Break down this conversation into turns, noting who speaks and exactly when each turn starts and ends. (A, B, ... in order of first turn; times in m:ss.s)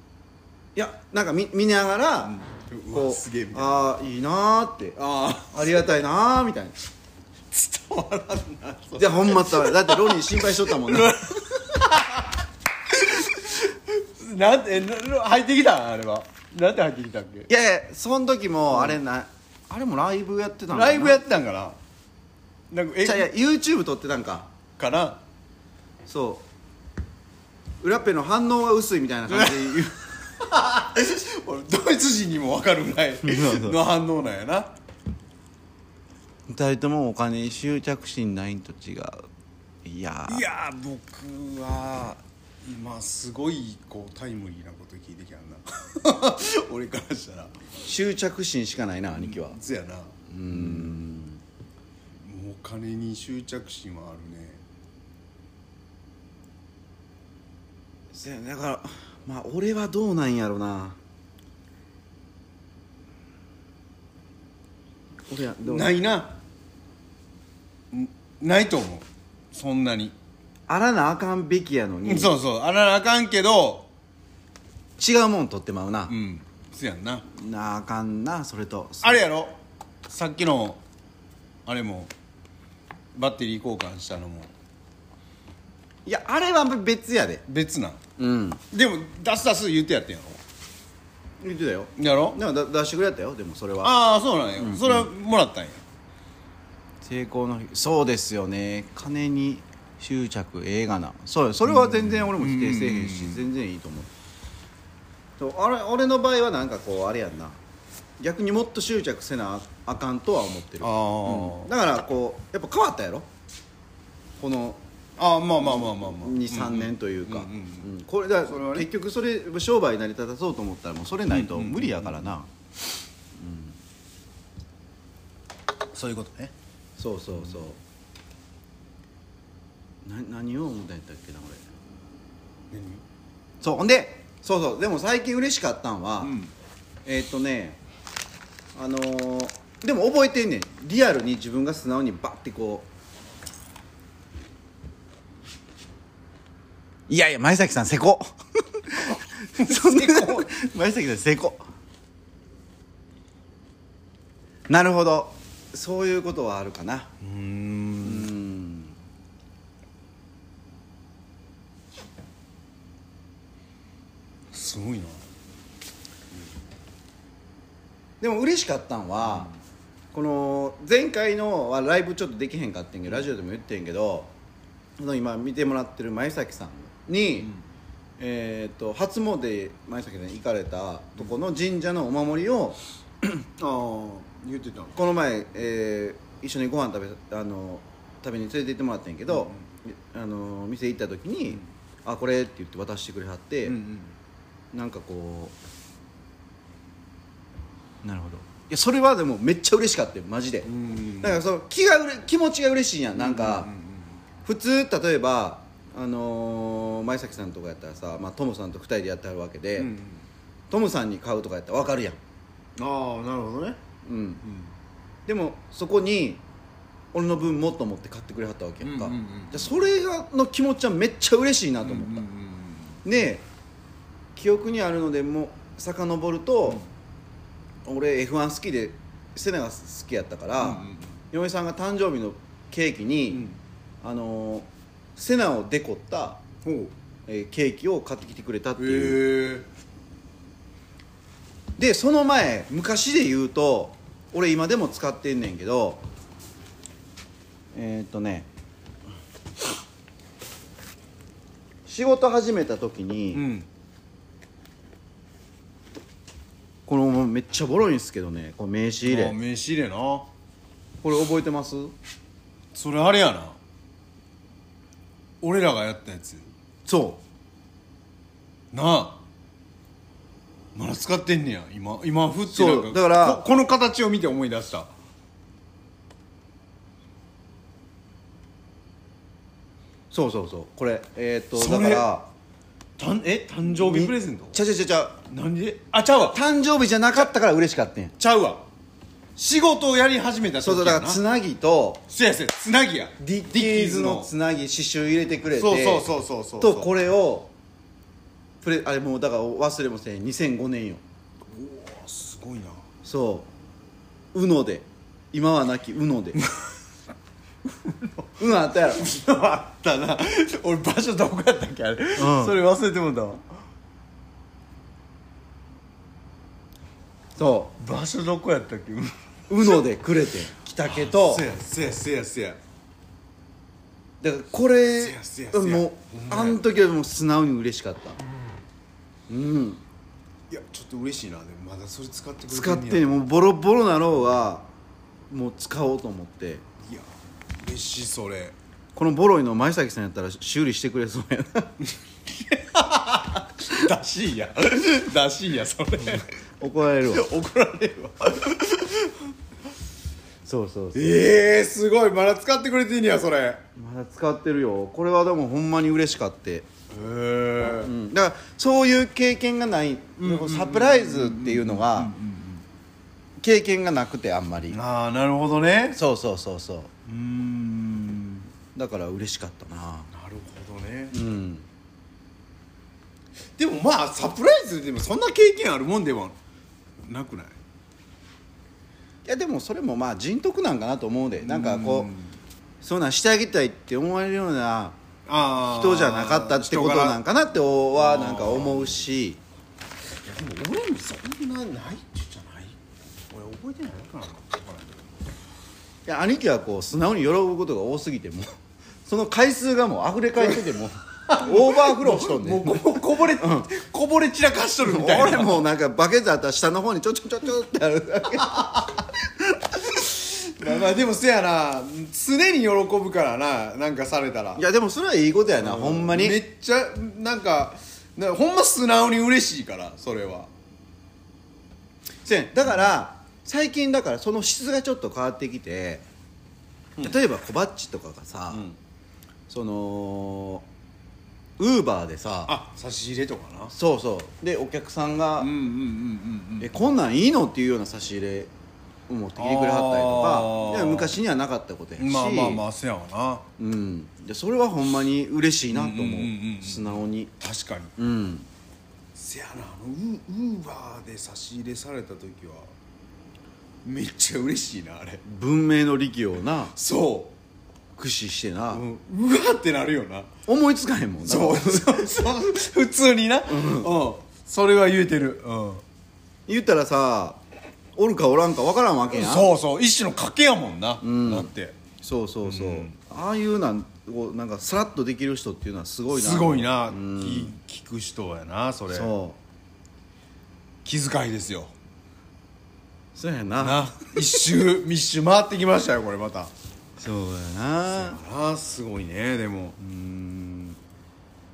0:00.8-0:02.4 A
0:02.2-0:03.9 B
0:02.9-0:05.0 A
0:05.0-0:05.8 B
0:05.5-0:06.8 A
0:07.5-0:17.5 B
0:09.0-0:11.2 A
0:17.5-0:21.2 A
0:18.7-0:19.0 B
0:20.7-0:21.8 B
0:22.7-0:23.3 B
0:23.0-0:24.5 A
0:24.8-0:25.2 B
0:26.1-0:26.4 A
0:27.8-0:30.0 A
0:29.3-0:29.8 B
0:30.3-0:34.7 B
0:33.2-0:33.8 A
0:36.5-0:39.3 A
0:39.8-0:40.4 A
0:40.3-0:47.6 B
0:47.8-0:49.6 A
0:49.1-0:51.0 B
0:50.3-0:51.4 A
0:52.2-0:54.6 B
0:58.1-1:01.0 A
1:05.3-1:05.9 A
1:05.6-1:06.4 B
1:07.9-1:10.2 B
1:10.7-1:12.3 A
1:12.0-1:13.9 B
1:15.0-1:16.2 A
1:16.1-1:17.2 B
1:17.3-1:19.2 A
1:19.0-1:19.6 B
1:20.1-1:20.8 B
1:21.7-1:22.1 B
1:23.2-1:24.5 B
1:26.1-1:27.4 A
1:27.5-1:28.0 B
1:28.2-1:28.6 A
1:28.7-1:30.4 B
1:31.4-1:33.9 A
1:32.0-1:32.4 B
1:33.8-1:35.8 B
1:34.6-1:35.1 A
1:37.0-1:44.1 A
1:41.6-1:43.4 B
1:45.4-1:47.6 A
1:48.2-1:53.3 A
1:50.8-1:51.7 B
1:54.4-1:54.8 A
1:55.2-1:57.9 B
1:55.6-2:02.5 A
1:58.5-1:58.9 B
2:01.3-2:02.3 B
2:03.4-2:03.8 A
2:05.9-2:06.5 B
2:07.0-2:07.8 A
2:10.0-2:11.6 A
2:12.7-2:13.0 B
2:13.6-2:16.4 A
2:16.2-2:16.5 B
2:17.1-2:17.8 A
2:18.8-2:22.9 A
2:27.1-2:31.6 A
2:29.1-2:30.5 B
2:34.7-2:37.1 A
2:37.2-2:38.3 B
2:38.0-2:39.0 A
2:44.5-2:45.2 B
2:48.2-2:49.5 A
2:49.3-2:49.5 B
2:50.1-2:54.3 A
2:55.0-2:57.5 A
2:58.2-3:02.8 A
3:03.6-3:05.0 B
3:05.0-3:13.8 A
3:09.3-3:09.6 B
3:13.6-3:14.2 B
3:14.7-3:15.5 A
3:18.0-3:23.7 A
3:20.6-3:21.4 B
3:23.2-3:24.2 B
3:24.4-3:29.9 A
3:29.8-3:30.3 B
3:30.7-3:32.2 A
3:32.8-3:33.8 B
3:34.0-3:34.4 A
3:34.4-3:34.7 B
3:35.3-3:36.4 A
3:37.1-3:42.3 A
3:38.8-3:39.7 B
3:41.8-3:43.0 B
3:43.0-3:43.5 A
3:44.4-3:46.8 A
3:47.9-3:53.5 A
3:50.6-3:51.2 B
3:53.3-3:53.6 B
3:54.0-3:56.4 A
3:56.6-3:56.9 B
3:57.3-3:59.2 A
3:58.8-3:59.7 B
4:01.8-4:06.0 A
4:07.7-4:08.5 A
4:11.9-4:13.4 A
4:13.3-4:13.7 B
4:16.9-4:19.4 A
4:19.0-4:20.3 B
4:21.0-4:22.0 A
4:22.7-4:23.6 B
4:25.4-4:26.5 B
4:26.9-4:27.2 A
4:28.7-4:29.2 B
4:30.7-4:34.9 B
4:32.5-4:33.4 A
4:40.1-4:42.3 A
4:41.6-4:42.1 B
4:43.0-4:44.6 B
4:43.7-4:45.2 A
4:45.3-4:46.4 B
4:46.3-4:48.2 A
4:48.2-4:48.6 B
4:49.4-4:51.2 B
4:50.6-4:52.0 A
4:52.1-4:54.3 B
4:53.2-4:56.1 A
4:55.6-4:56.9 B
4:56.6-4:57.5 A
4:58.6-5:01.0 A
5:01.5-5:02.8 B
5:03.0-5:03.5 A
5:04.3-5:06.4 A
5:06.4-5:06.7 B
5:07.7-5:13.4 B
5:08.4-5:09.1 A
5:12.2-5:12.6 A
5:17.4-5:17.7 A
5:17.8-5:19.8 B
5:19.5-5:21.5 A
5:20.8-5:22.6 B
5:24.2-5:28.2 A
5:25.0-5:26.6 B
5:29.3-5:29.8 A
5:30.5-5:33.1 B
5:32.5-5:34.7 A
5:35.3-5:36.6 A
5:36.8-5:37.1 B
5:37.6-5:38.6 B
5:39.0-5:41.8 A
5:41.8-5:46.3 B
5:46.6-5:47.3 A
5:47.1-5:49.3 B
5:50.5-5:51.2 A
5:50.9-5:53.6 B
5:53.8-5:56.7 A
5:56.9-5:57.9 B
5:57.6-6:02.2 A
6:00.2-6:02.6 B
6:03.4-6:04.8 A
6:04.7-6:06.0 B
6:05.9-6:06.9 A
6:07.1-6:08.5 B
6:08.7-6:10.1 A
6:10.1-6:11.2 B
6:11.1-6:11.7 A
6:13.6-6:16.4 B
6:17.0-6:17.6 B
6:19.2-6:22.1 A
6:21.4-6:22.4 B
6:22.8-6:25.0 A
6:25.3-6:27.2 B
6:25.6-6:29.4 A
6:27.9-6:29.0 B
6:30.2-6:32.8 B
6:33.3-6:35.0 B
6:36.1-6:38.5 A
6:39.1-6:43.7 A
6:41.3-6:45.7 B
6:44.8-6:48.9 A
6:48.5-6:49.0 B
6:49.7-6:54.6 B
6:54.6-6:56.4 A
6:55.6-7:00.5 B
7:02.2-7:06.0 A
7:07.0-7:08.6 A
7:08.5-7:08.8 B
7:09.5-7:10.6 A
7:11.6-7:12.5 A
7:12.5-7:13.7 B
7:13.7-7:15.5 A
7:15.4-7:16.8 B
7:16.6-7:18.5 A
7:19.1-7:22.6 A
7:19.4-7:21.2 B
7:22.0-7:23.4 B
7:23.6-7:27.3 A
7:25.7-7:27.9 B
7:28.0-7:28.5 A
7:29.2-7:32.7 B
7:33.8-7:35.2 B
7:35.2-7:36.7 A
7:36.7-7:37.4 B
7:38.0-7:38.8 A
7:38.7-7:40.3 B
7:40.5-7:42.1 A
7:41.2-7:45.8 B
7:43.5-7:43.9 A
7:46.5-7:47.4 A
7:48.0-7:49.5 A
7:49.1-7:51.8 B
7:51.0-7:57.5 A
7:52.4-7:53.0 B
7:56.1-7:59.1 B
7:58.9-7:59.4 A
8:00.8-8:01.7 B
8:03.2-8:04.2 A
8:03.6-8:06.5 B
8:07.0-8:08.2 A
8:07.9-8:09.8 B
8:09.8-8:10.8 A